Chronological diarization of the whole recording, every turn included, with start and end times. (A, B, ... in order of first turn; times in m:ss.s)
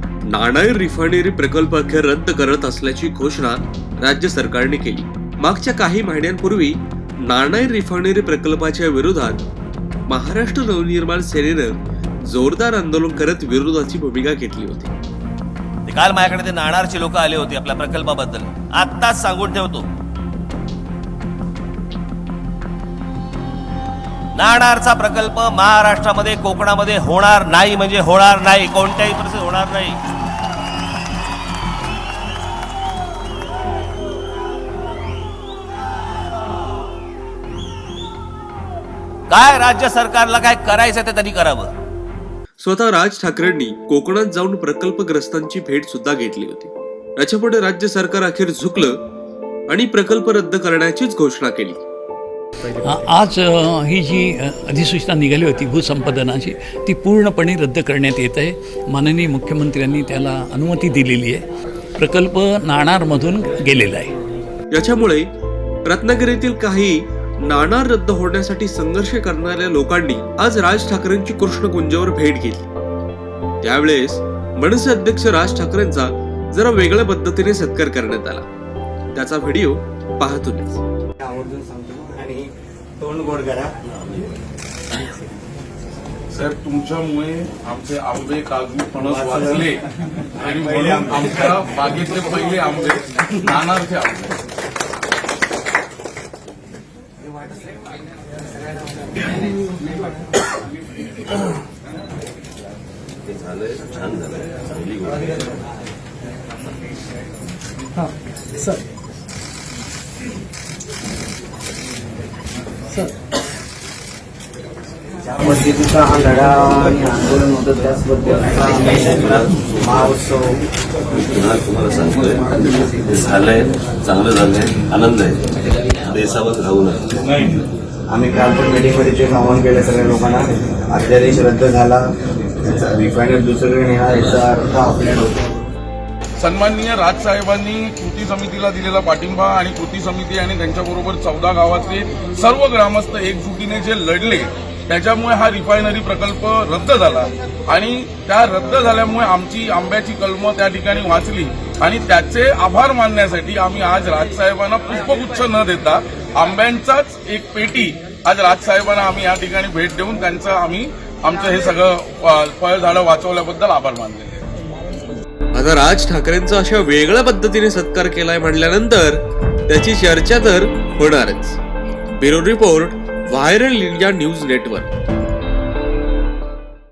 0:00.3-0:09.4 A
0:10.1-0:11.7 A
0:12.3-0:14.9 A
0:15.9-0:19.9 B
0:24.4-0:30.0 B
0:39.3-0:41.7 B
0:42.6-0:49.0 A
0:49.7-0:51.8 A
0:52.7-1:01.4 C
1:02.0-1:04.1 C
1:04.7-1:05.3 A
1:05.9-1:12.7 A
1:13.6-1:18.5 A
1:19.1-1:20.8 A
1:21.2-1:23.8 D
1:26.3-1:29.8 E
1:29.0-1:29.7 D
1:30.4-1:34.4 E
1:30.7-1:31.3 D
1:43.2-1:45.5 F
1:55.4-2:00.6 D
1:59.0-2:00.0 F
2:01.1-2:07.3 F
2:07.4-2:07.6 E
2:08.1-2:12.1 D
2:12.6-2:15.4 D
2:16.4-2:44.4 E
2:45.5-2:51.6 A
2:52.2-2:54.9 A